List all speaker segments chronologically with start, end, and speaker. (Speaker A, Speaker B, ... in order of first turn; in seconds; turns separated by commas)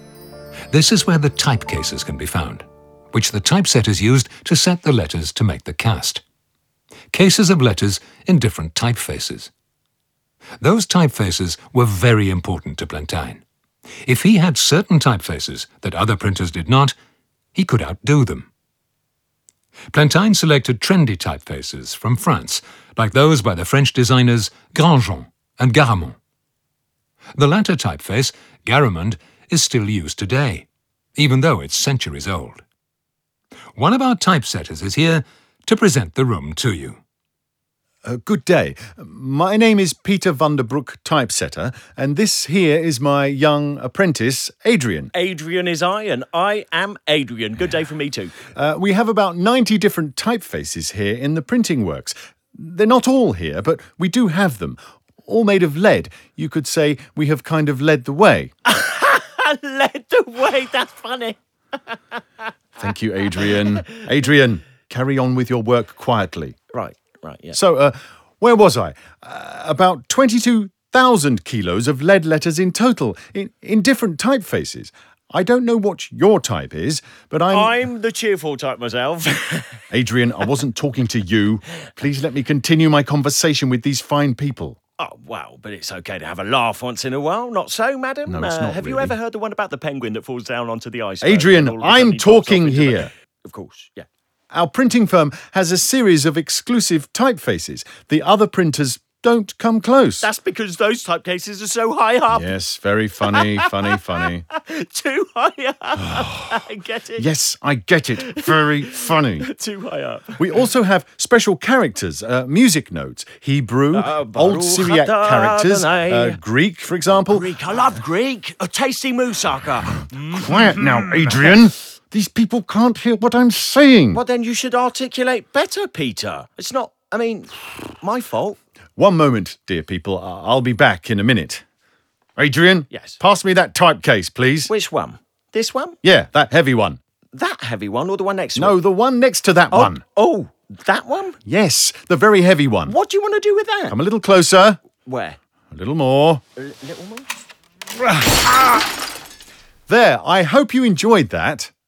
Speaker A: 0.7-6.2, Speaker A: 7.1-9.5, Speaker A: 10.6-13.4, Speaker A: 14.0-16.9, Speaker A: 17.6-18.5, Speaker A: 19.9-26.2, Speaker A: 27.4-30.6, Speaker A: 31.2-32.6, Speaker A: 33.8-37.0, Speaker B: 38.0-45.1, Speaker C: 45.1-48.4, Speaker B: 48.5-58.5, Speaker C: 58.7-61.4, Speaker B: 62.8-66.6, Speaker C: 66.7-67.6, Speaker B: 67.5-77.8, Speaker C: 77.5-79.8, Speaker B: 79.9-84.8, Speaker C: 85.0-94.1, Speaker B: 88.2-89.1, Speaker B: 91.2-93.1, Speaker B: 94.5-100.3, Speaker C: 100.2-102.5, Speaker B: 102.3-104.5, Speaker C: 103.2-107.2, Speaker B: 107.2-109.5, Speaker C: 108.2-110.7, Speaker B: 110.4-117.5, Speaker C: 113.9-116.4, Speaker C: 117.2-121.4, Speaker B: 120.3-124.2, Speaker C: 124.1-128.6, Speaker B: 129.0-131.6, Speaker B: 132.4-134.7, Speaker C: 132.9-133.2, Speaker C: 134.7-136.0, Speaker B: 136.0-137.0, Speaker C: 137.3-138.8, Speaker B: 138.6-140.0, Speaker C: 139.7-141.4, Speaker B: 141.4-142.9, Speaker C: 142.8-144.0, Speaker B: 143.9-144.8, Speaker C: 145.0-145.4, Speaker B: 145.7-146.4, Speaker C: 146.6-147.3, Speaker B: 149.9-151.7